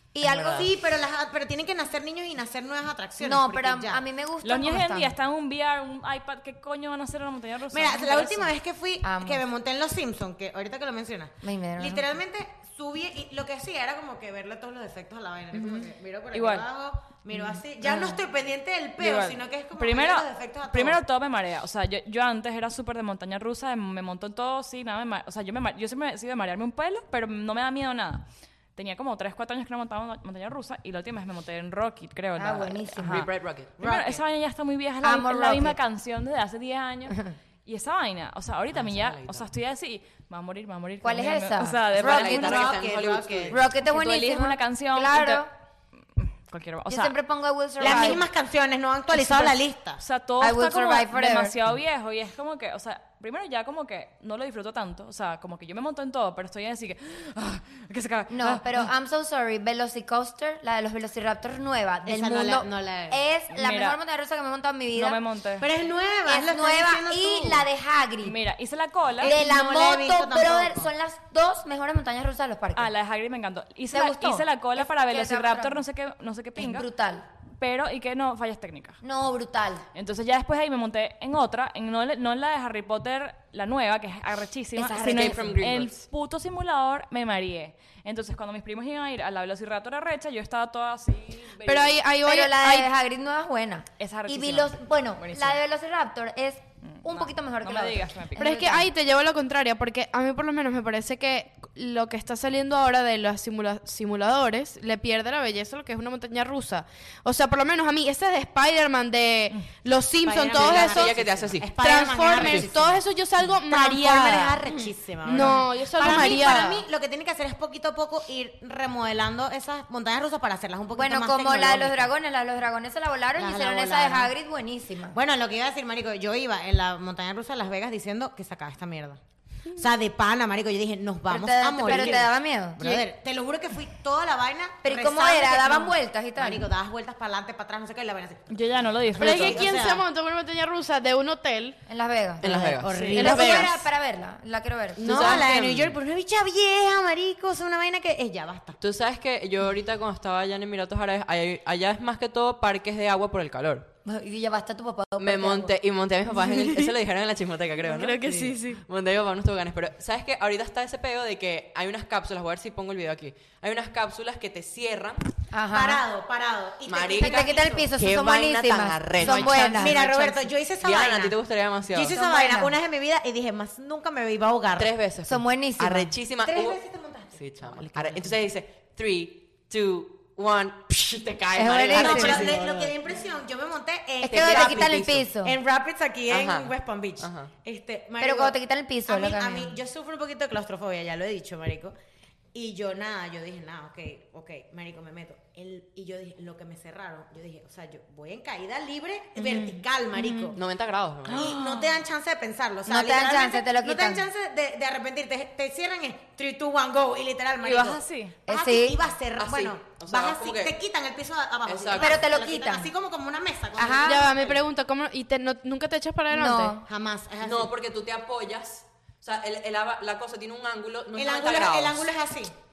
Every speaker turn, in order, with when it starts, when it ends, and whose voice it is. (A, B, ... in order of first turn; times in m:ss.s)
0:00.2-0:04.0 A
0:00.2-0:00.7 B
0:00.2-0:00.6 C
0:03.2-0:05.2 B
0:04.4-0:08.5 D
0:07.7-0:21.0 A
0:09.0-0:09.4 B
0:11.4-0:12.2 B
0:16.3-0:16.6 D
0:17.3-0:18.2 B
0:19.0-0:42.7 D
0:32.4-0:33.3 B
0:33.0-0:33.9 C
0:33.8-0:34.2 A
0:35.0-0:35.8 B
0:37.1-0:37.3 B
0:38.7-0:39.5 C
0:41.0-0:42.6 B
0:41.9-0:43.6 C
0:42.0-0:43.6 A
0:43.5-0:45.5 B
0:43.8-0:45.5 D
0:46.2-0:47.2 D
0:46.9-0:48.2 B
0:47.8-0:50.0 A
0:47.8-0:48.2 D
0:49.2-0:58.9 D
0:50.4-0:51.6 B
0:58.3-1:05.2 B
1:02.0-1:03.2 A
1:03.5-1:04.0 D
1:04.9-1:05.7 D
1:05.6-1:07.6 A
1:06.3-1:08.4 B
1:08.2-1:09.3 D
1:09.2-1:10.9 A
1:09.2-1:12.9 B
1:12.8-1:16.8 D
1:13.9-1:15.8 B
1:16.6-1:17.2 B
1:17.6-1:19.0 D
1:19.0-1:19.8 B
1:19.9-1:32.0 D
1:24.8-1:25.6 B
1:24.9-1:26.0 C
1:31.6-1:32.9 E
1:32.2-1:38.9 B
1:34.0-1:35.6 D
1:36.9-1:38.6 D
1:38.4-1:51.1 E
1:50.2-1:53.0 A
1:50.5-1:51.7 C
1:51.8-1:54.6 E
1:52.3-1:52.7 C
1:53.6-2:02.1 A
1:54.6-1:54.9 B
1:55.2-1:56.8 E
2:00.9-2:05.2 B
2:03.4-2:04.3 A
2:05.1-2:20.0 A
2:11.3-2:13.0 B
2:14.8-2:16.7 B
2:18.5-2:19.7 D
2:19.2-2:21.8 E
2:21.9-2:25.4 B
2:22.4-2:22.9 C
2:22.5-2:23.9 A
2:22.9-2:23.2 D
2:23.1-2:23.7 E
2:25.0-2:26.0 C
2:25.0-2:28.8 A
2:28.8-2:33.9 C
2:34.0-2:35.7 B
2:35.2-2:45.2 C
2:36.4-2:36.9 E
2:37.8-2:38.8 E
2:45.5-2:46.0 B
2:45.7-2:47.9 A
2:46.8-2:50.2 C
2:47.2-2:50.5 B
2:49.2-2:49.9 E
2:49.7-2:51.4 A
2:50.8-2:52.2 C
2:51.9-2:54.9 A
2:52.1-2:52.7 B
2:54.8-2:56.8 C
2:55.2-2:56.1 B
2:56.4-2:58.3 A
2:57.4-3:03.0 C
3:01.5-3:02.6 B
3:01.9-3:08.5 A
3:04.2-3:05.6 B
3:04.3-3:05.2 C
3:06.3-3:07.5 C
3:08.2-3:09.8 B
3:09.1-3:11.9 A
3:12.5-3:20.6 A
3:19.4-3:20.5 B
3:20.5-3:21.6 C
3:21.3-3:34.6 A
3:21.3-3:22.0 D
3:22.9-3:24.2 B
3:27.6-3:28.4 D
3:28.5-3:29.0 B
3:29.4-3:30.8 C
3:31.6-3:32.2 C
3:31.9-3:32.9 B
3:33.8-3:34.3 B
3:34.0-3:36.8 E
3:36.3-3:36.8 B
3:36.8-3:37.7 A
3:37.4-3:42.1 C
3:41.1-3:42.5 A